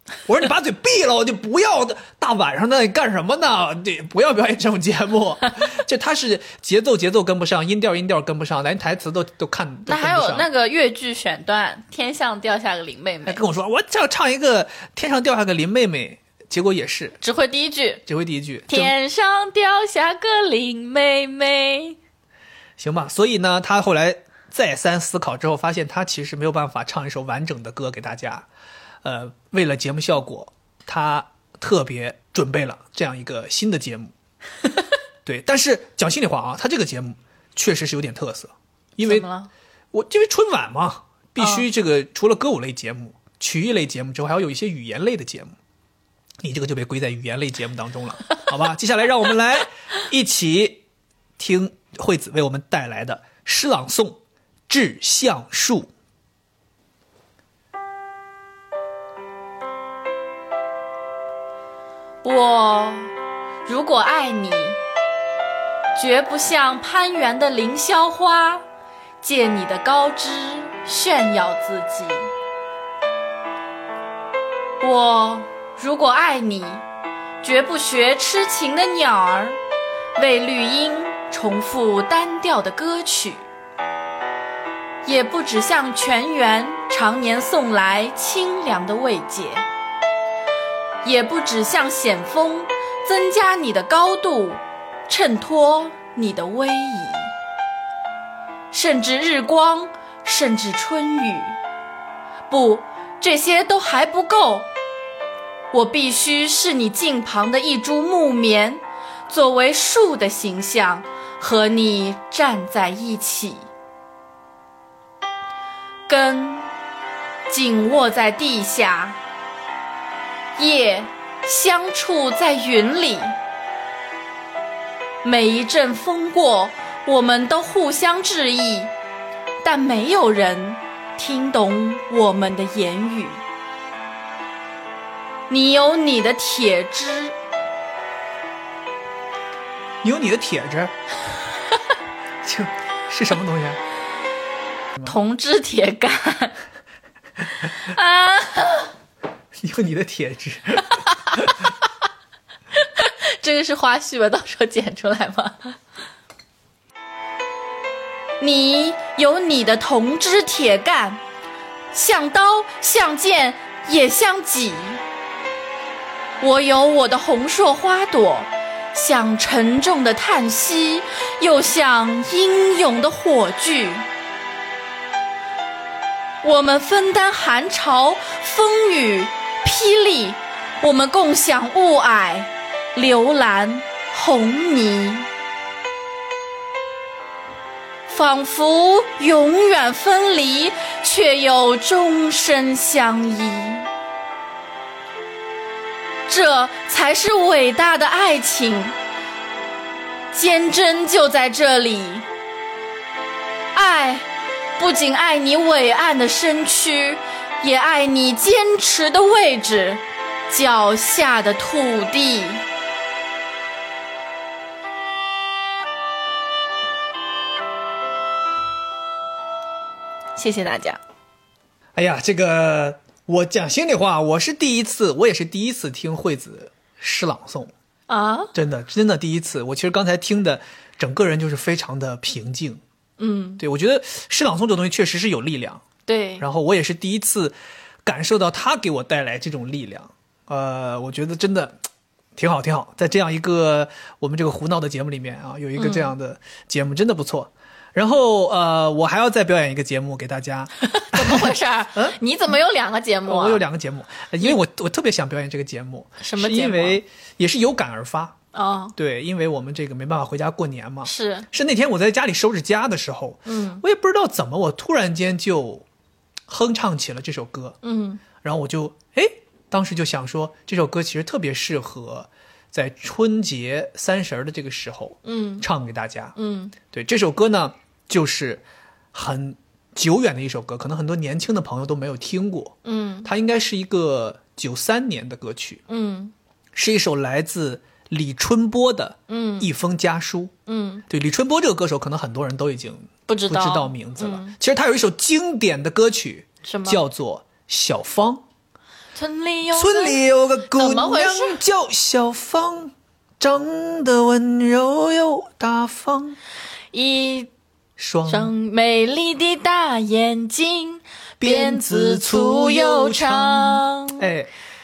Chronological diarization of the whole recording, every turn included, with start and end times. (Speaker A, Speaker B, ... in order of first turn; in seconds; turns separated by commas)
Speaker A: 0.3-10.4, Speaker B: 9.9-13.4, Speaker A: 13.2-17.2, Speaker B: 17.2-18.0, Speaker A: 18.1-18.9, Speaker B: 18.7-22.0, Speaker A: 22.8-28.5, Speaker A: 29.0-34.1, Speaker A: 35.2-39.2, Speaker B: 39.0-39.5, Speaker A: 39.9-45.5, Speaker B: 41.4-41.7, Speaker A: 46.4-50.8, Speaker A: 51.4-55.9, Speaker B: 62.2-63.1, Speaker B: 63.6-64.8, Speaker B: 65.9-68.6, Speaker B: 69.2-72.3, Speaker B: 74.8-76.8, Speaker B: 77.4-79.6, Speaker B: 80.2-83.5, Speaker B: 85.0-89.6, Speaker B: 91.0-97.3, Speaker B: 98.7-101.6, Speaker B: 102.5-104.7, Speaker B: 105.7-113.7, Speaker B: 116.1-116.7, Speaker B: 117.5-119.2, Speaker B: 120.6-123.3, Speaker B: 125.2-128.9, Speaker B: 129.6-133.4, Speaker B: 135.5-137.3, Speaker A: 140.0-140.9, Speaker A: 142.4-143.8, Speaker B: 145.1-146.5, Speaker B: 147.8-148.9, Speaker A: 149.6-151.5, Speaker B: 153.0-155.7, Speaker B: 158.4-161.2, Speaker B: 161.9-165.0, Speaker B: 166.4-174.1, Speaker B: 176.4-185.3, Speaker B: 188.1-193.9, Speaker B: 196.3-198.9, Speaker B: 200.3-202.2, Speaker B: 203.7-212.6, Speaker B: 220.3-221.0, Speaker A: 221.9-227.7, Speaker B: 228.1-228.5, Speaker A: 228.5-232.8, Speaker B: 233.2-233.6, Speaker A: 233.6-235.8, Speaker B: 236.1-236.4, Speaker A: 236.4-241.8, Speaker A: 242.3-252.2, Speaker B: 245.8-246.1, Speaker B: 250.9-253.6, Speaker A: 253.2-258.4, Speaker B: 256.2-257.0, Speaker B: 258.5-258.9, Speaker A: 258.9-265.8, Speaker B: 261.0-261.5, Speaker B: 263.4-263.8, Speaker A: 266.5-267.8, Speaker B: 267.8-268.2, Speaker A: 268.4-285.8, Speaker B: 275.2-275.6, Speaker B: 276.4-276.7, Speaker B: 282.8-283.3, Speaker B: 285.9-286.3, Speaker A: 286.7-290.5, Speaker B: 289.3-289.7, Speaker B: 290.7-291.0, Speaker A: 291.1-298.4, Speaker B: 293.3-294.5, Speaker B: 296.6-297.0, Speaker B: 299.1-301.6, Speaker A: 299.7-306.4, Speaker B: 306.9-307.5, Speaker A: 308.0-308.5, Speaker B: 308.3-314.3, Speaker A: 311.4-314.5